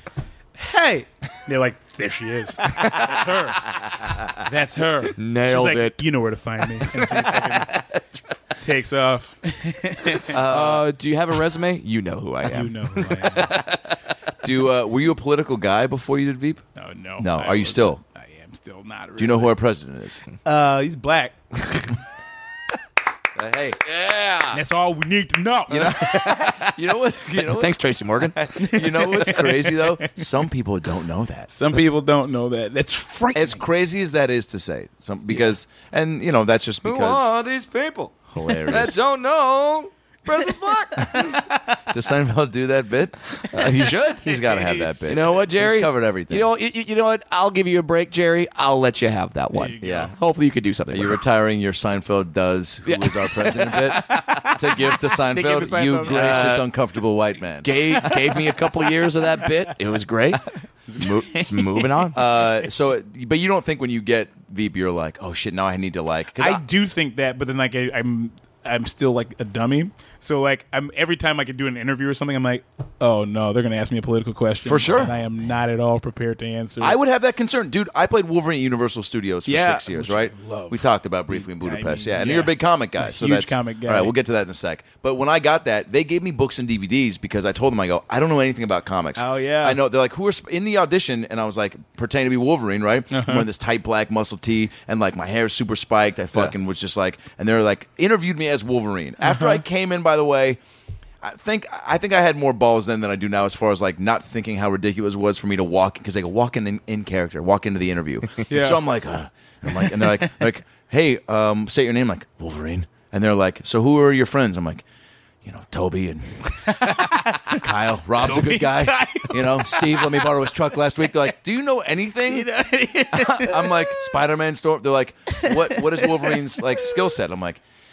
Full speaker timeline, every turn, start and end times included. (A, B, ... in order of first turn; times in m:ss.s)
0:00.6-0:03.7 A
0:04.3-0:07.8 A
0:05.2-0:06.0 B
0:06.9-0:08.0 B
0:08.6-0:10.4 A
0:10.3-0:10.8 C
0:10.3-0:14.0 B
0:12.5-0:13.6 A
0:14.4-0:16.6 C
0:16.8-0:19.6 A
0:17.2-0:18.0 C
0:19.2-0:20.2 C
0:20.4-0:21.6 A
0:23.3-0:23.8 C
0:23.8-0:24.6 B
0:24.5-0:26.3 A
0:25.7-0:31.5 C
0:25.7-0:26.8 B
0:27.3-0:28.5 B
0:28.6-0:30.2 A
0:31.5-0:33.6 A
0:33.3-0:37.3 C
0:36.8-0:41.4 B
0:38.3-0:39.0 C
0:40.9-0:41.6 A
0:41.0-0:43.2 C
0:43.4-0:44.3 B
0:44.2-0:46.4 C
0:44.2-0:45.2 A
0:45.0-0:51.2 B
0:49.5-0:50.1 A
0:49.8-0:50.1 C
0:50.9-0:57.7 C
0:52.8-0:53.8 B
0:53.7-0:56.6 A
0:56.0-0:56.6 B
0:57.6-1:02.2 B
0:58.0-0:58.5 A
1:00.9-1:02.0 A
1:02.1-1:06.6 C
1:06.4-1:17.0 A
1:14.6-1:15.1 C
1:16.8-1:40.6 C
1:19.4-1:24.1 A
1:29.2-1:29.8 A
1:33.1-1:33.5 A
1:39.2-1:39.6 A
1:41.2-1:54.8 C
1:48.5-1:48.8 A
1:55.4-1:56.7 C
1:56.6-1:57.6 A
1:57.5-2:02.5 C
1:58.2-2:00.4 A
2:02.3-2:04.1 A
2:03.1-2:07.6 C
2:05.3-2:07.1 A